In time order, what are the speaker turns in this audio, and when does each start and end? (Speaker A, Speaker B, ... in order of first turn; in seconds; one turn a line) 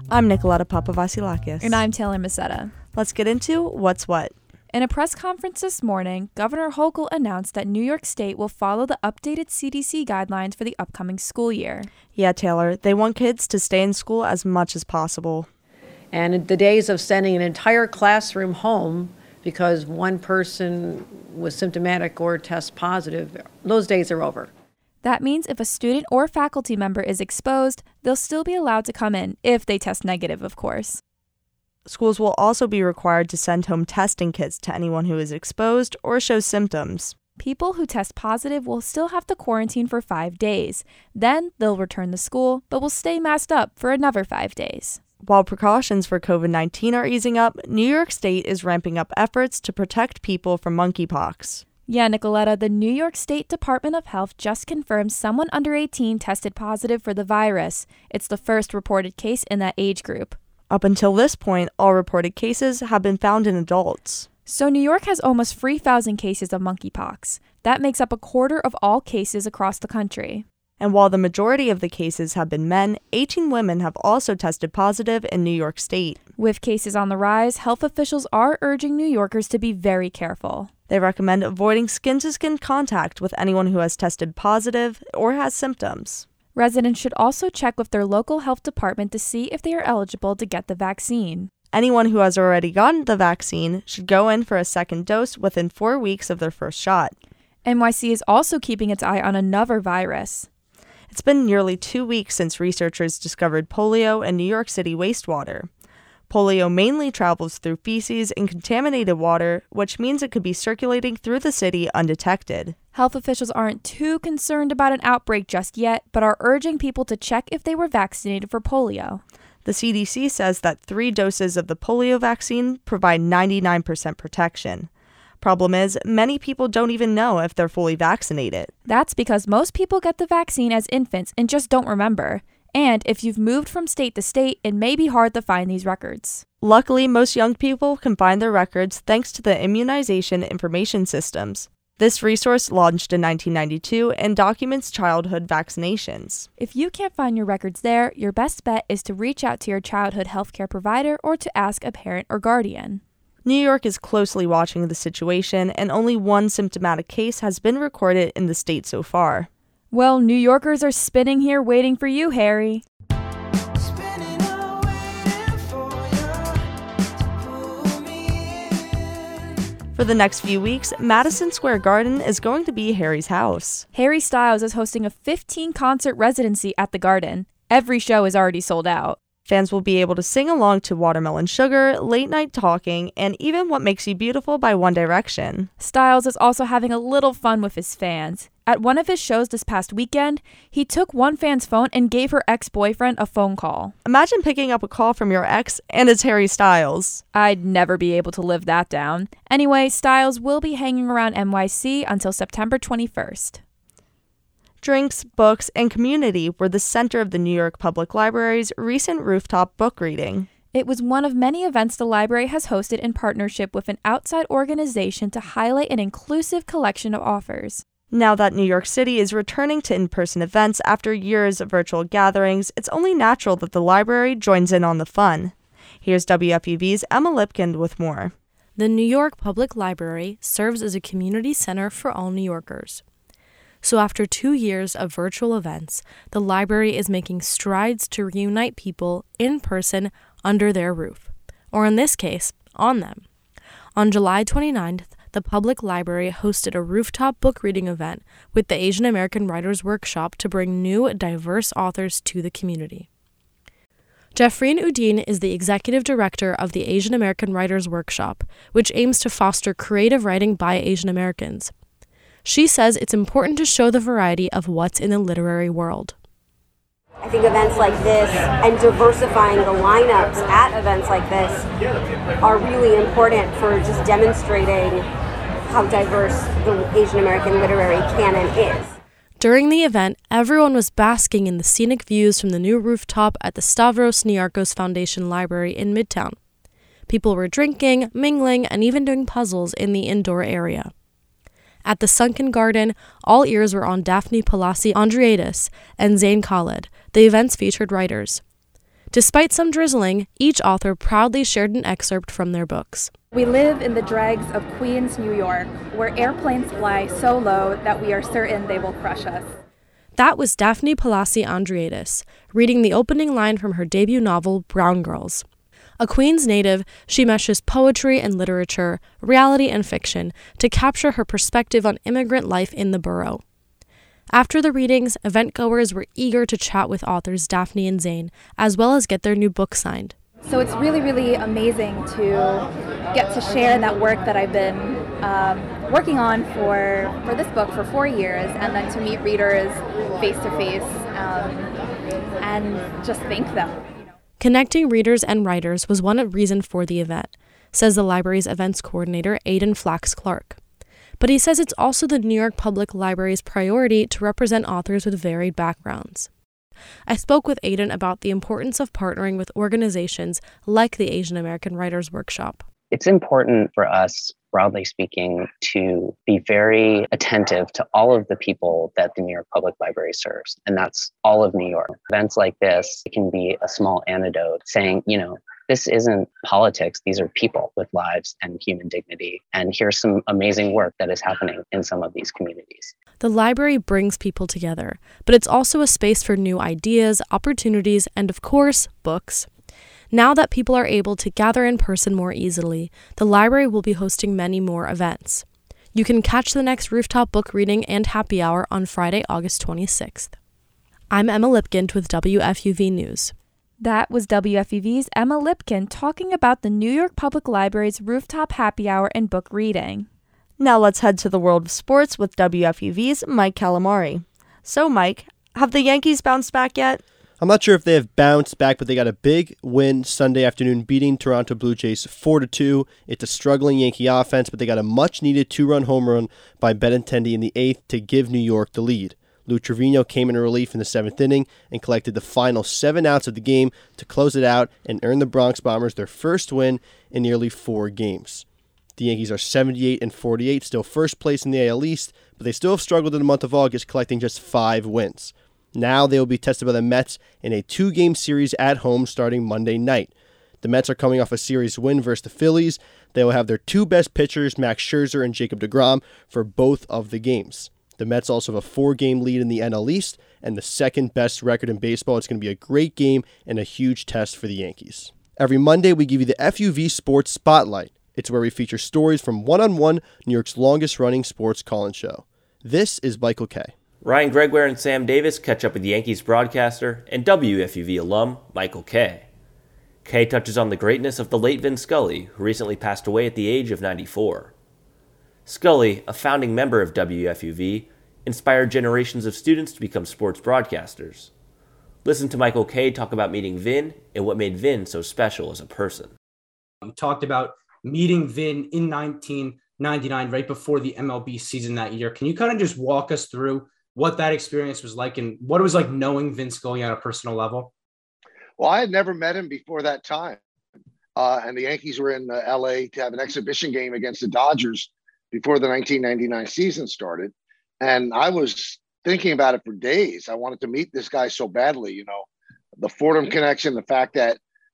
Speaker A: 0.1-1.8
Speaker B: 1.6-2.7
Speaker A: 3.0-4.3
Speaker B: 4.7-11.9
Speaker A: 12.2-15.5
Speaker C: 16.1-24.5
Speaker B: 25.0-31.0
Speaker A: 31.9-37.1
Speaker B: 37.4-45.0
Speaker A: 45.2-51.6
Speaker B: 51.9-60.4
Speaker A: 60.7-64.3
Speaker B: 64.5-70.5
Speaker A: 70.8-76.2
Speaker B: 76.4-80.7
Speaker A: 80.9-86.2
Speaker B: 86.5-91.5
Speaker A: 91.7-97.1
Speaker B: 97.7-100.5
Speaker A: 101.1-105.7
Speaker A: 106.3-112.8
Speaker B: 112.9-119.2
Speaker A: 119.7-124.9
Speaker A: 125.4-128.7
Speaker B: 128.8-136.4
Speaker A: 136.6-146.5
Speaker B: 146.6-153.0
Speaker A: 153.4-159.5
Speaker B: 159.9-162.8
Speaker A: 169.9-173.8
Speaker B: 173.9-179.2
Speaker A: 179.5-185.7
Speaker B: 185.8-193.9
Speaker A: 194.1-197.2
Speaker B: 197.3-203.6
Speaker A: 204.8-210.5
Speaker B: 210.7-217.8
Speaker A: 218.1-228.3
Speaker D: 228.8-233.0
Speaker D: 233.8-243.2
Speaker D: 244.0-253.1
Speaker D: 254.3-261.7
Speaker D: 262.4-266.1
Speaker E: 267.2-271.6
Speaker E: 272.4-275.1
Speaker E: 275.7-278.9
Speaker D: 279.4-286.4
Speaker D: 287.1-290.9
Speaker D: 291.9-298.4
Speaker D: 299.1-303.1
Speaker F: 303.3-309.5
Speaker D: 310.2-315.4
Speaker D: 316.0-323.4
Speaker D: 324.3-330.1
Speaker F: 330.4-341.7
Speaker F: 342.4-343.8
Speaker D: 344.4-350.6
Speaker D: 351.2-356.3
Speaker D: 357.1-362.7
Speaker G: 362.9-382.9
Speaker D: 383.2-389.5
Speaker D: 390.1-400.3
Speaker D: 401.1-403.3
Speaker B: 403.8-410.1
Speaker A: 410.6-417.0
Speaker H: 417.4-438.4
Speaker H: 439.0-473.7
Speaker I: 474.0-479.3
Speaker I: 480.1-484.5
Speaker I: 485.5-491.3
Speaker I: 492.1-496.1
Speaker J: 496.9-507.7
Speaker K: 508.6-510.4
Speaker K: 511.2-522.3
Speaker K: 522.8-524.4